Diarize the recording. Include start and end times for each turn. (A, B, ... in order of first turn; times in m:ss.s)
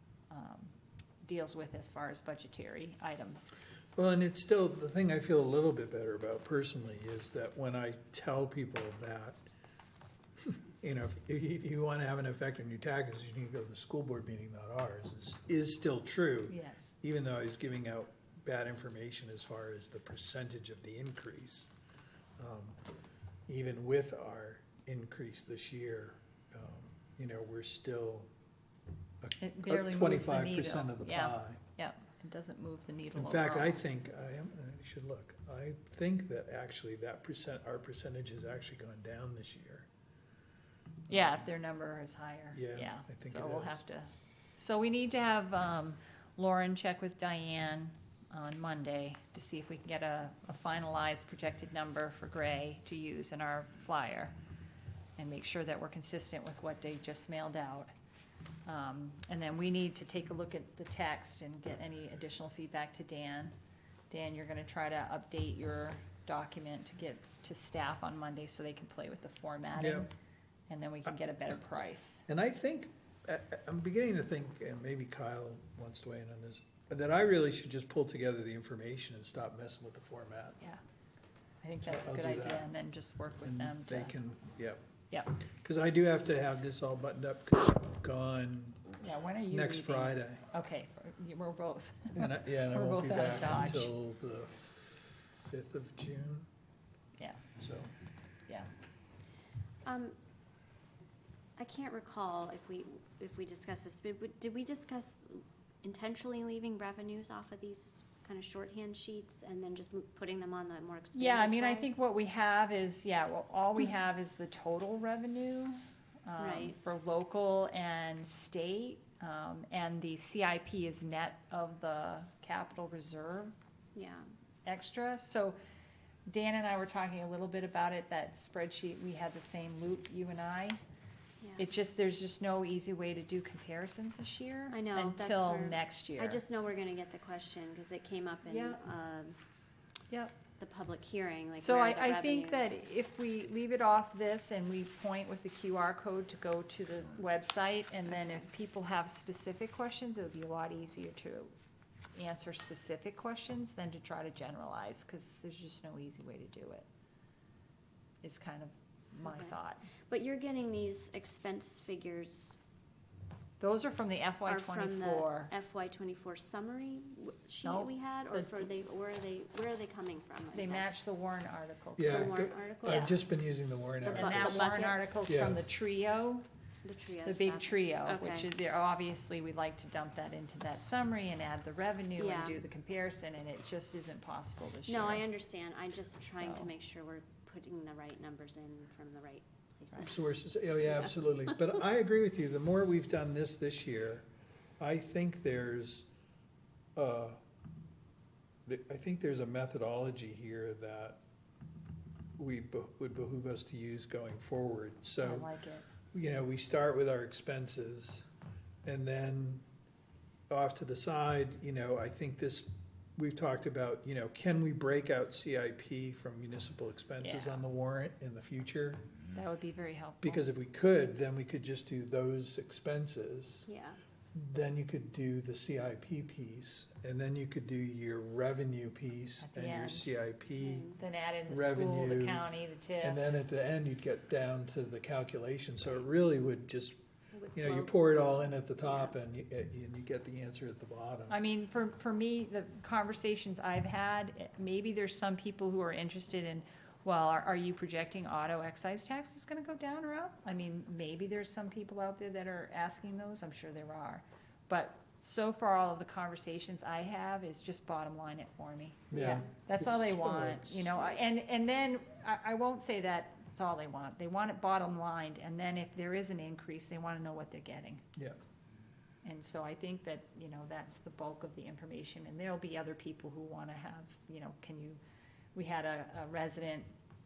0:00.3-0:03.5 A
0:04.0-0:09.4 B
0:10.4-0:21.7 B
0:16.5-0:17.0 A
0:22.4-0:22.8 B
0:23.5-0:28.3 B
0:29.2-0:31.6 B
0:29.4-0:33.8 A
0:33.1-0:39.9 B
0:41.1-0:54.3 A
0:42.5-0:43.8 B
0:55.2-0:57.9 A
0:58.6-1:03.5 A
1:04.1-1:10.1 A
1:09.8-1:10.1 B
1:10.7-1:12.2 A
1:12.3-1:20.6 B
1:21.6-1:24.1 A
1:21.8-1:22.7 B
1:23.4-1:24.8 B
1:25.1-1:25.4 A
1:25.6-1:30.4 B
1:29.0-1:33.9 A
1:32.1-1:36.5 B
1:37.6-1:37.9 B
1:39.8-1:40.2 C
1:41.6-1:51.9 C
1:51.1-2:03.5 A
1:56.4-1:56.8 C
2:03.9-2:04.3 C
2:04.6-2:05.6 A
2:06.2-2:10.8 A
2:11.6-2:16.4 A
2:14.7-2:19.4 C
2:18.5-2:18.8 A
2:20.1-2:20.4 A
2:20.6-2:22.8 C
2:21.5-2:31.5 A
2:32.1-2:36.8 A
2:38.2-2:39.8 A
2:39.2-2:39.5 C
2:40.1-2:42.6 C
2:43.6-2:45.5 A
2:44.4-2:50.9 C
2:47.6-2:48.6 A
2:50.5-2:53.1 A
2:52.0-2:54.6 B
2:52.0-2:53.2 C
2:54.0-2:55.2 C
2:54.1-2:56.4 A
2:55.3-2:55.6 B
2:56.8-2:58.5 C
2:57.2-3:05.2 A
3:02.2-3:02.6 C
3:04.9-3:10.2 C
3:06.3-3:06.7 A
3:10.1-3:14.2 B
3:10.9-3:11.6 C
3:14.8-3:16.1 B
3:17.0-3:17.4 B
3:18.6-3:21.2 B
3:22.4-3:25.5 B
3:25.2-3:25.9 A
3:26.1-3:28.2 B
3:28.8-3:29.6 B
3:30.5-3:39.0 B
3:37.2-3:37.6 A
3:39.3-3:40.4 A
3:40.2-3:43.6 B
3:43.6-3:44.0 C
3:44.3-3:50.9 B
3:49.4-3:50.1 A
3:50.6-3:51.0 C
3:51.0-3:53.2 A
3:51.5-3:52.5 B
3:53.0-3:57.0 B
3:57.3-3:59.1 C
3:57.5-4:01.4 B
4:01.3-4:28.0 A
4:19.1-4:21.1 B
4:29.2-4:35.0 A
4:35.5-4:36.9 A